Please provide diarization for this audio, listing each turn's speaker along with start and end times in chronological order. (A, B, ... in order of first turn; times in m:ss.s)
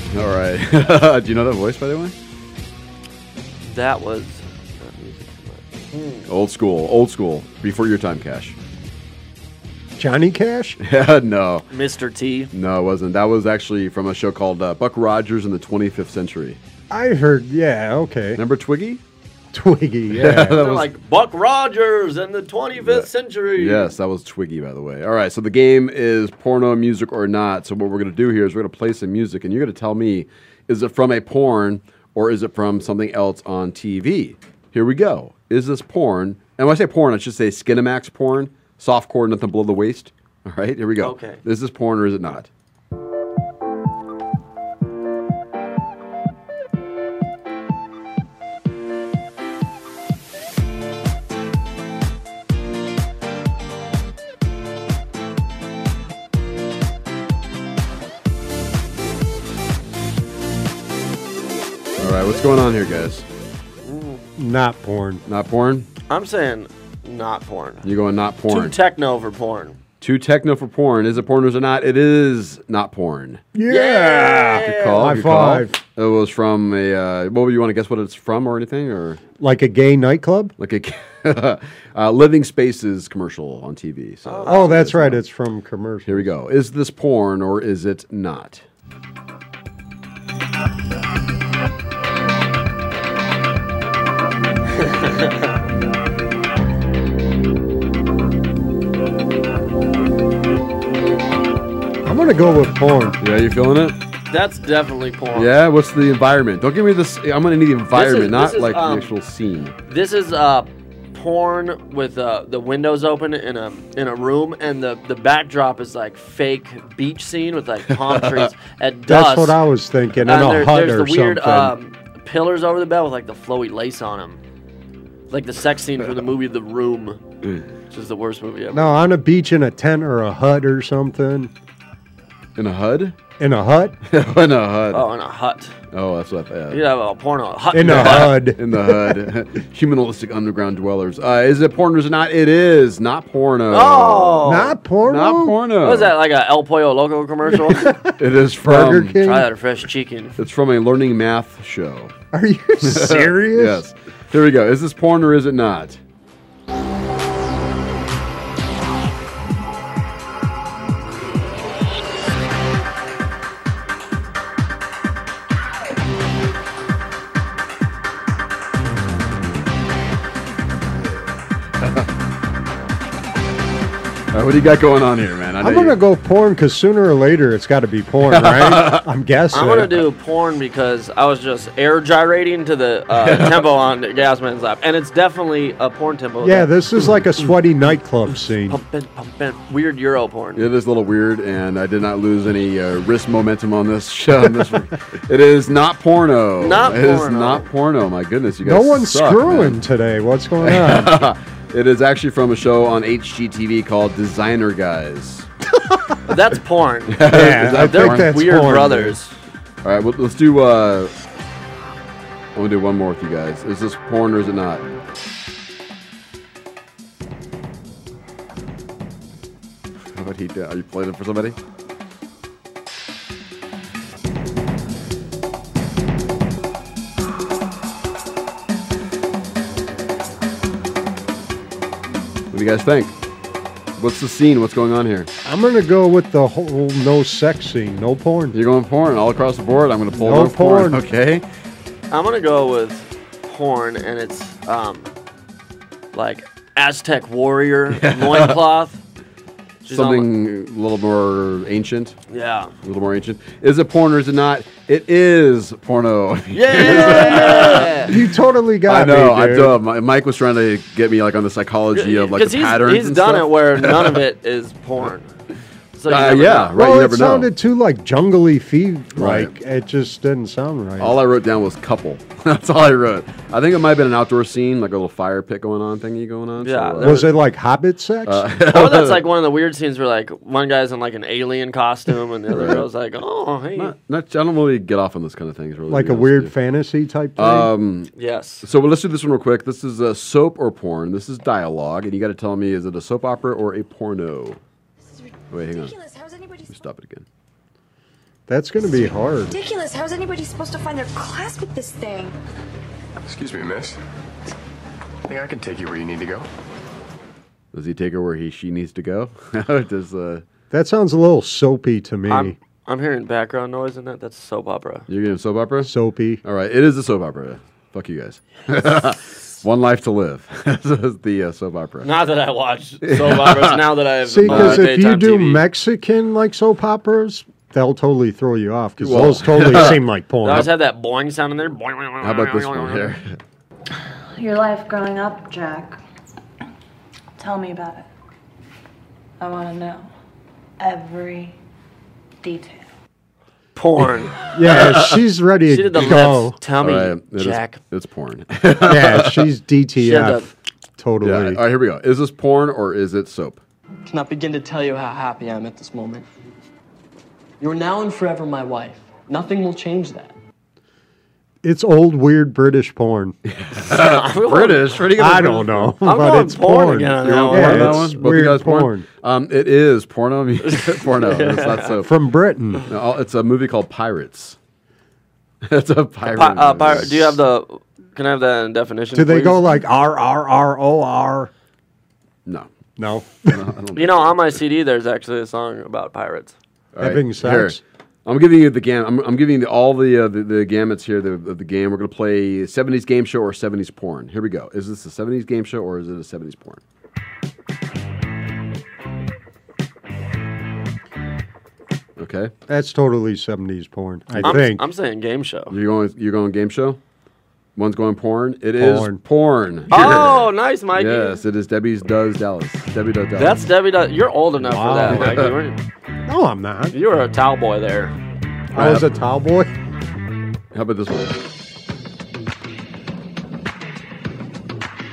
0:00.1-0:02.2 A
0:03.7-0:06.3 B
0:06.3-0:08.6 A
0:10.0-0:10.8 C
0:10.8-0:11.7 A
0:11.7-0:12.5 B
0:12.5-0:16.6 A
0:16.9-0:18.4 C
0:18.4-0:19.0 A
0:19.5-0:20.6 C
0:20.1-0:20.9 A
0:20.6-0:23.9 B
0:22.8-0:42.5 A
0:41.0-0:41.4 B
1:02.0-1:03.3 A
1:03.8-1:04.2 B
1:04.4-1:05.2 C
1:05.3-1:05.9 A
1:06.1-1:07.8 B
1:07.8-1:08.8 A
1:08.5-1:09.8 B
1:10.0-1:13.4 A
1:13.5-1:15.8 C
1:13.7-1:15.1 B
1:14.7-1:19.2 A
1:19.4-1:20.5 C
1:20.6-1:25.2 A
1:24.3-1:24.9 B
1:24.5-1:26.3 C
1:26.1-1:28.6 A
1:34.9-1:35.2 B
1:42.0-1:43.2 C
1:43.2-1:44.0 A
1:44.3-1:45.5 B
1:45.3-1:49.8 A
1:47.9-1:49.1 B
1:49.9-1:59.6 B
1:58.0-1:58.5 A
1:59.1-2:01.7 C
2:00.2-2:04.4 B
2:05.3-2:07.2 B
2:07.9-2:08.9 B
2:08.7-2:11.5 C
2:12.6-2:13.2 A
2:13.4-2:14.0 C
2:14.1-2:15.0 A
2:14.9-2:15.8 B
2:15.9-2:16.8 A
2:16.7-2:18.4 B
2:17.7-2:19.2 C
2:17.8-2:26.2 A
2:23.7-2:24.8 B
2:24.4-2:25.6 C
2:25.8-2:27.9 B
2:27.5-2:29.5 C
2:28.2-2:29.2 A
2:29.2-2:30.4 B
2:30.4-2:32.1 A
2:32.3-2:33.8 C
2:32.8-2:36.0 A
2:54.3-2:56.0 A
2:55.6-3:00.1 C
2:58.3-2:59.1 A
2:59.5-3:06.7 B
3:03.1-3:03.7 A
3:06.4-3:08.8 C
3:08.7-3:10.6 B
3:10.6-3:19.8 A
3:16.6-3:17.7 B
3:18.6-3:21.2 C
3:20.6-3:25.5 A
3:26.3-3:29.4 B
3:27.1-3:28.4 A
3:27.3-3:29.2 C
3:29.8-3:31.1 A
3:32.6-3:34.8 A
3:40.2-3:41.6 A
3:52.5-3:53.2 A
3:54.0-3:55.3 A
3:55.4-3:58.6 C
3:58.5-4:01.4 A
4:00.1-4:01.0 C
4:02.1-4:05.1 B
4:06.1-4:09.0 B
4:08.0-4:08.6 A
4:09.8-4:10.3 B
4:09.9-4:12.2 A
4:12.3-4:12.7 B
4:12.8-4:18.2 A
4:16.5-4:18.1 B
4:17.6-4:19.8 C
4:18.9-4:24.2 A
4:21.9-4:25.3 B
4:25.9-4:26.7 B
4:26.1-4:27.5 A
4:26.8-4:31.2 C
4:29.2-4:29.5 A
4:31.0-4:37.3 A
4:36.6-4:37.4 B
4:37.0-4:38.5 C
4:38.2-4:39.3 A
4:38.7-4:43.9 B
4:42.5-4:42.9 A
4:43.8-4:46.5 A
4:45.9-4:47.7 C
4:47.4-4:54.6 A
4:48.2-4:48.6 B
4:55.1-4:56.7 D
4:55.5-4:56.0 A
4:56.7-4:57.3 A
4:58.5-4:59.6 C
4:59.5-5:02.4 D
5:03.2-5:04.0 E
5:05.3-5:06.5 E
5:07.7-5:10.4 A
5:10.7-5:12.6 C
5:12.3-5:15.1 B
5:15.1-5:15.9 A
5:15.8-5:16.4 C
5:16.4-5:22.1 A
5:22.0-5:25.6 B
5:23.1-5:23.8 A
5:24.3-5:30.7 C
5:24.4-5:25.0 A
5:29.0-5:30.7 A
5:30.4-5:33.1 B
5:32.2-5:33.4 A
5:34.4-5:36.0 F
5:37.4-5:38.1 F
5:39.4-5:40.1 F
5:40.8-5:41.6 F
5:42.4-5:42.8 F
5:43.8-5:44.4 B
5:44.6-5:46.6 C
5:44.7-5:45.1 A
5:45.7-5:47.8 B
5:46.8-5:49.5 A
5:48.8-5:51.6 C
5:50.0-5:50.5 B
5:51.2-5:53.6 A
5:54.1-5:56.3 G
5:57.6-6:00.4 G
6:01.6-6:03.4 C
6:03.5-6:06.0 A
6:03.7-6:05.1 B
6:05.2-6:09.1 C
6:06.0-6:08.1 B
6:07.2-6:12.1 A
6:10.6-6:12.0 B
6:12.0-6:12.8 C
6:12.9-6:14.6 A
6:15.7-6:17.4 A
6:16.3-6:19.6 B
6:19.1-6:21.5 C
6:23.0-6:23.6 C
6:23.4-6:24.6 A
6:24.0-6:26.5 B
6:27.0-6:36.8 A
6:27.0-6:27.8 C
6:42.2-6:42.5 A
6:42.7-6:44.9 C
6:44.4-6:45.8 B
6:45.7-6:47.0 A
6:47.8-6:53.7 A
6:48.8-6:49.2 C
6:49.9-6:51.4 B
6:53.4-6:55.8 B
6:54.6-6:55.5 C
6:55.1-6:55.6 A
6:56.3-6:57.0 C
6:56.9-6:58.1 B
6:58.7-6:59.7 C
6:58.8-6:59.2 A
7:00.7-7:01.4 A